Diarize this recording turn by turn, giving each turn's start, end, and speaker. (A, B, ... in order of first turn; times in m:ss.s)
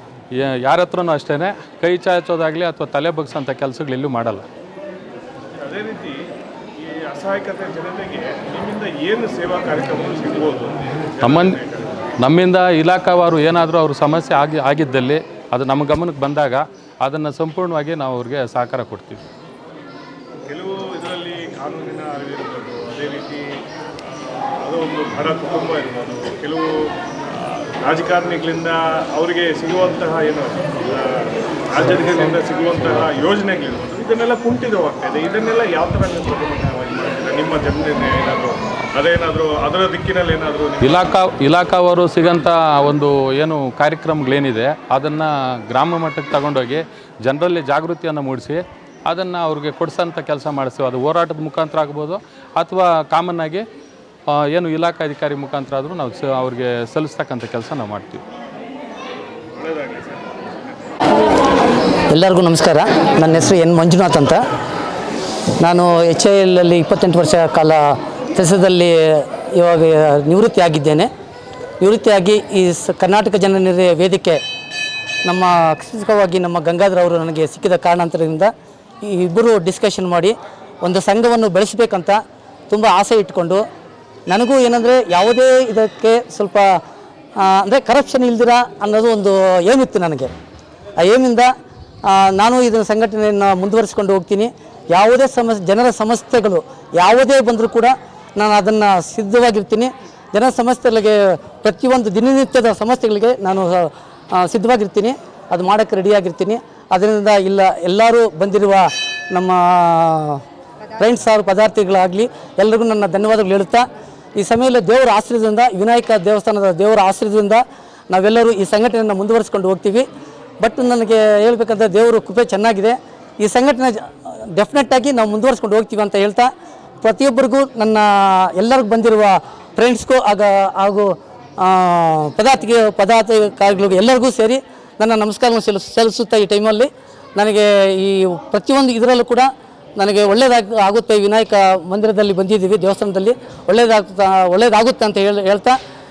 0:00.4-0:04.4 A
0:05.6-0:06.2 B
0:06.8-0:12.1 B
0:11.2-0:11.6 A
0:12.2-0:19.2 A
0:20.5-0:23.5 B
0:24.6-0:26.7 B
0:27.8-0:41.1 B
0:40.8-0:53.6 A
0:54.3-0:58.2 A
0:59.6-1:00.4 B
1:02.1-1:04.4 C
1:05.6-1:07.8 C
1:08.4-1:11.1 C
1:11.8-1:14.4 C
1:15.2-1:18.5 C
1:19.0-1:23.6 C
1:24.3-1:26.8 C
1:27.4-1:30.3 C
1:31.0-1:31.5 C
1:32.0-1:50.4 C
1:51.0-2:00.1 C
2:00.6-2:25.8 C